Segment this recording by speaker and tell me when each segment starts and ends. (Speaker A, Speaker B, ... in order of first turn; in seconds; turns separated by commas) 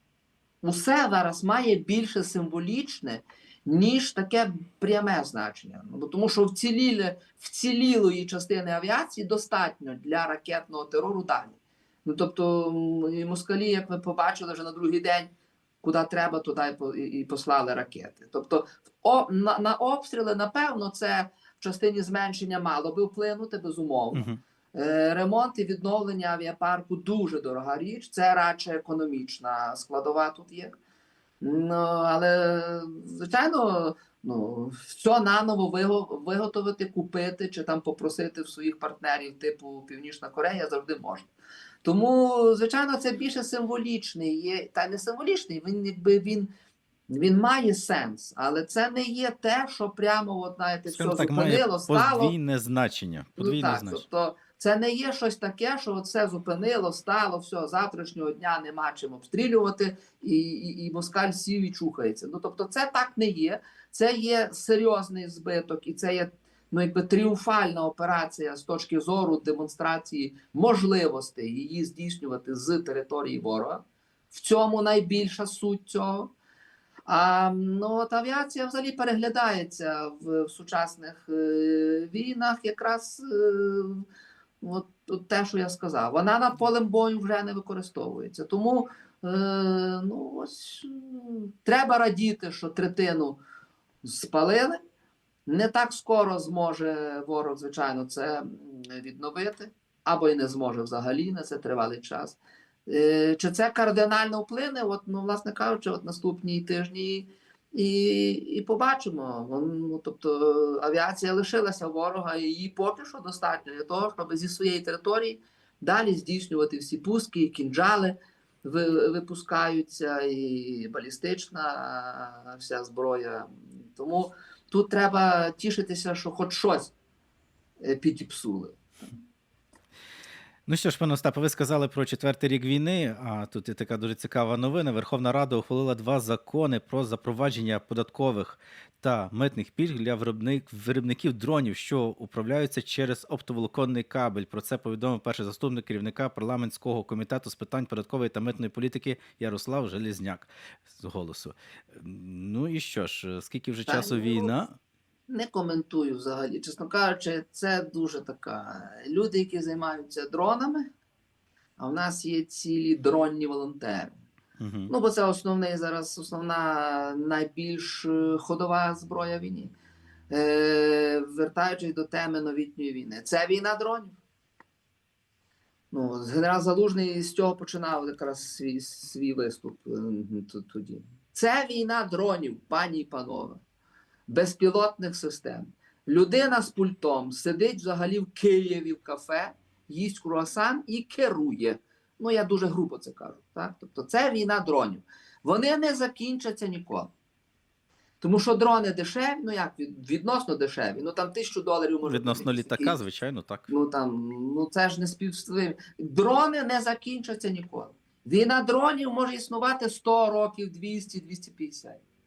Speaker A: 0.6-30.7, Speaker B: 24.1-24.4, Speaker A: 31.4-41.3, Speaker A: 41.8-46.5, Speaker A: 47.1-52.3, Speaker B: 50.9-54.0, Speaker A: 53.4-76.3, Speaker A: 77.1-84.0, Speaker A: 84.6-93.4, Speaker A: 94.0-94.8, Speaker A: 95.5-126.9, Speaker A: 127.8-128.8, Speaker B: 130.7-154.8, Speaker A: 153.9-154.5, Speaker A: 155.3-160.9, Speaker A: 161.8-164.2, Speaker B: 164.6-164.9, Speaker A: 164.9-169.7, Speaker A: 170.3-174.2, Speaker A: 175.9-183.6, Speaker A: 184.3-197.1, Speaker A: 198.2-203.0, Speaker B: 202.0-203.7, Speaker A: 203.7-212.0